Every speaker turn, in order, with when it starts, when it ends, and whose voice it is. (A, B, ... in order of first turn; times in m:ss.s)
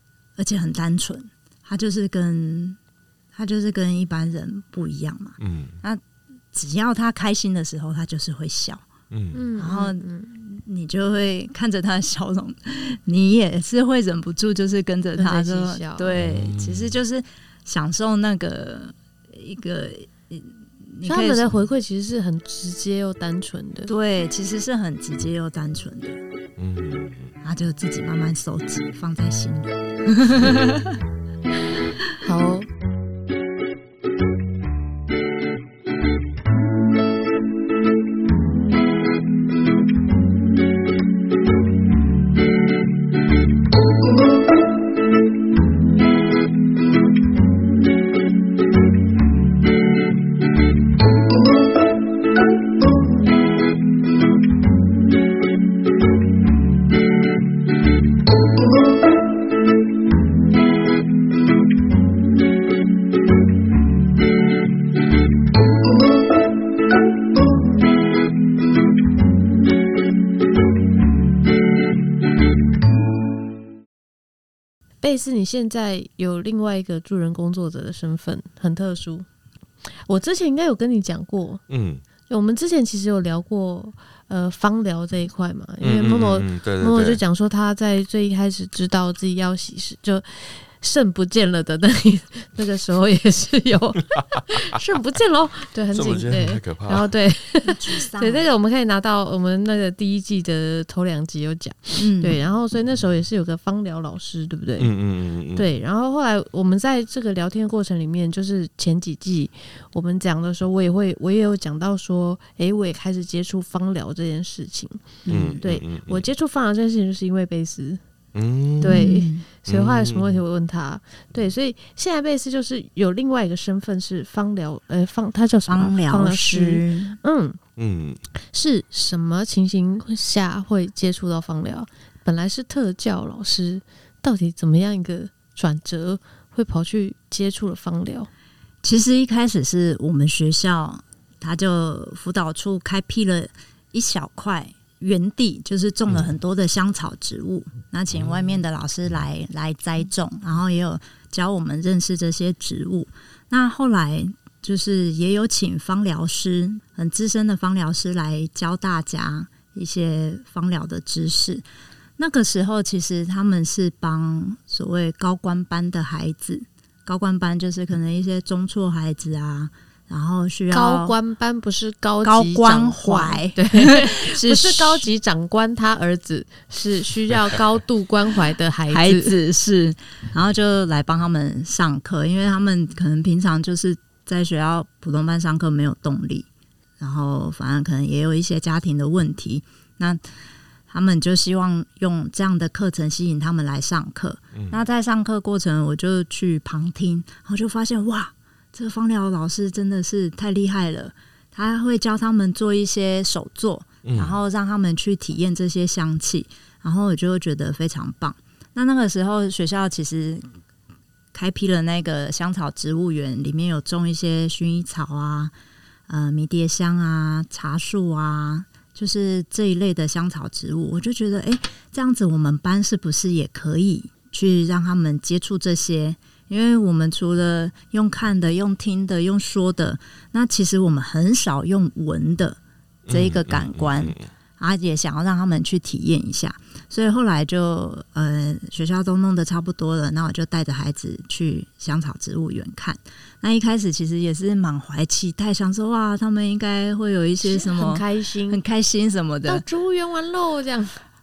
0:00.4-0:02.8 A
0:03.3-0:06.0 A
0:05.4-0:05.8 B
0:06.5-0:08.8 A
0:09.1-0:09.4 B
0:09.3-0:10.3 C
0:09.6-0:21.6 A
0:15.2-0:16.1 C
0:16.2-0:17.0 B
0:21.0-0:23.9 C
0:23.9-0:26.2 A
0:26.6-0:27.3 B
0:27.4-0:31.0 A
0:30.4-0:30.7 B
0:32.2-0:32.7 C
1:15.0-1:19.2 C
1:20.1-1:21.6 C
1:21.7-1:22.0 B
1:22.3-1:44.9 C
1:25.8-1:27.2 B
1:35.9-1:37.1 B
1:37.6-1:38.5 A
1:42.0-1:42.4 A
1:44.8-1:45.7 B
1:45.5-1:55.1 C
1:55.2-1:55.6 A
1:55.3-1:56.2 B
1:55.6-1:58.0 C
1:58.3-1:59.1 B
1:58.8-2:07.6 C
1:58.8-1:59.4 A
1:59.7-2:00.4 B
2:05.7-2:07.2 A
2:07.8-2:08.2 B
2:08.5-2:18.3 C
2:18.8-2:41.6 A
2:42.2-2:51.2 A
2:50.7-2:59.3 C
2:52.2-2:55.1 A
2:58.9-3:06.5 A
3:07.0-3:10.2 A
3:10.9-3:30.5 A
3:24.0-3:24.4 B
3:31.3-3:35.5 A
3:36.1-3:52.6 A
3:53.1-3:54.2 B
3:53.1-4:09.6 A
4:07.4-4:08.6 C
4:09.4-4:11.0 C